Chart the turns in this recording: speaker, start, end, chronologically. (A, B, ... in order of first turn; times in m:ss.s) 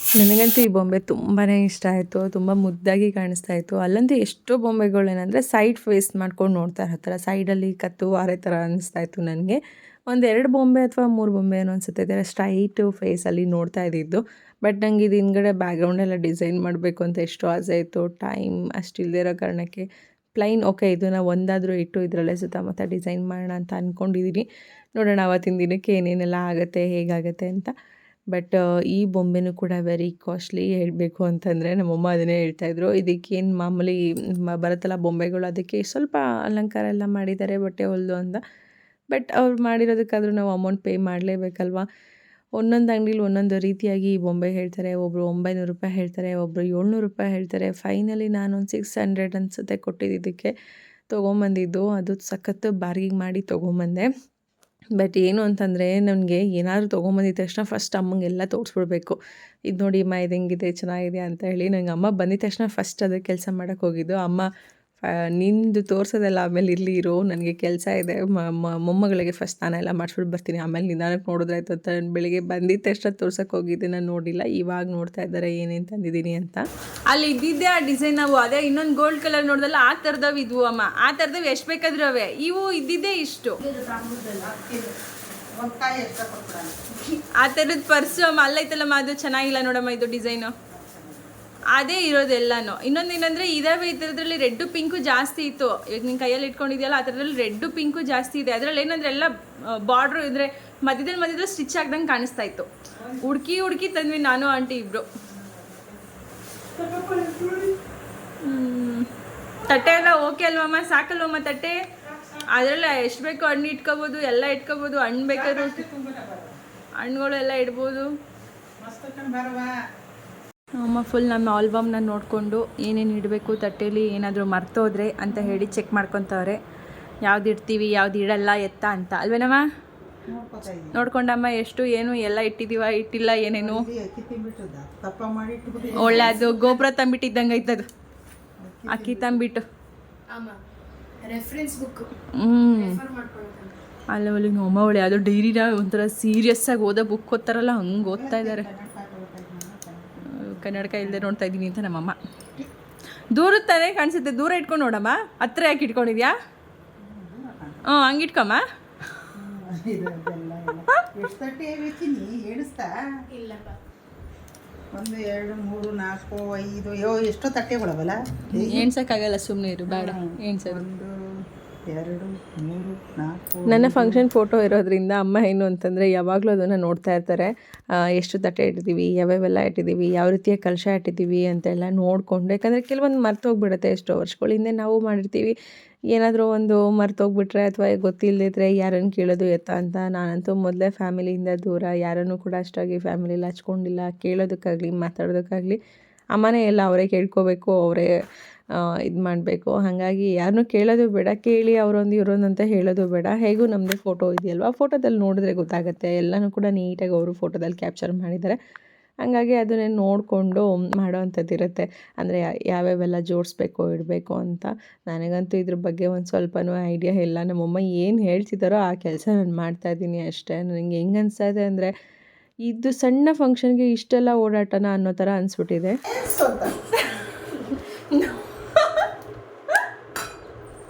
0:00.2-0:24.5 A
0:25.0-0:27.7 A
0:28.3-0:38.4 A
0:39.1-0:41.9 A
0:42.6-0:50.5 A
0:51.1-0:54.1 A
0:55.0-0:59.2 A
0:59.7-1:04.5 A
1:05.0-1:16.6 A
1:17.1-1:23.6 B
1:23.6-1:24.6 C
1:24.4-1:25.0 D
1:25.6-1:26.8 D
1:27.4-1:30.5 B
1:30.7-1:31.3 D
1:31.7-1:42.7 B
1:43.2-1:45.1 B
1:45.3-1:46.0 D
1:46.8-1:47.8 D
1:48.4-1:49.1 B
1:49.7-1:51.8 B
1:52.0-1:52.5 D
1:52.5-1:55.8 B
1:55.3-1:56.6 D
1:57.0-1:58.1 B
1:58.8-1:59.7 D
2:00.8-2:06.6 B
2:05.3-2:05.6 D
2:07.2-2:09.6 B
2:10.3-2:11.0 D
2:10.9-2:13.8 B
2:13.6-2:16.8 D
2:16.0-2:17.9 B
2:18.6-2:19.4 D
2:18.9-2:19.6 B
2:20.3-2:20.6 C
2:21.2-2:22.1 C
2:22.4-2:23.0 B
2:22.7-2:23.8 C
2:24.1-2:28.7 B
2:28.1-2:30.2 D
2:30.3-2:32.2 B
2:30.7-2:31.2 D
2:33.3-2:36.4 B
2:37.0-2:37.8 D
2:37.9-2:38.6 B
2:39.4-2:42.9 D
2:43.3-2:43.8 C
2:44.9-2:48.9 D
2:48.6-2:50.8 B
2:49.9-2:51.2 D
2:51.9-2:54.2 D
2:53.7-3:05.6 A
3:06.1-3:15.8 A
3:16.3-3:18.1 A
3:18.7-3:28.6 A
3:29.2-3:41.9 A
3:42.6-3:46.0 A
3:46.1-3:46.8 D
3:46.9-3:49.1 B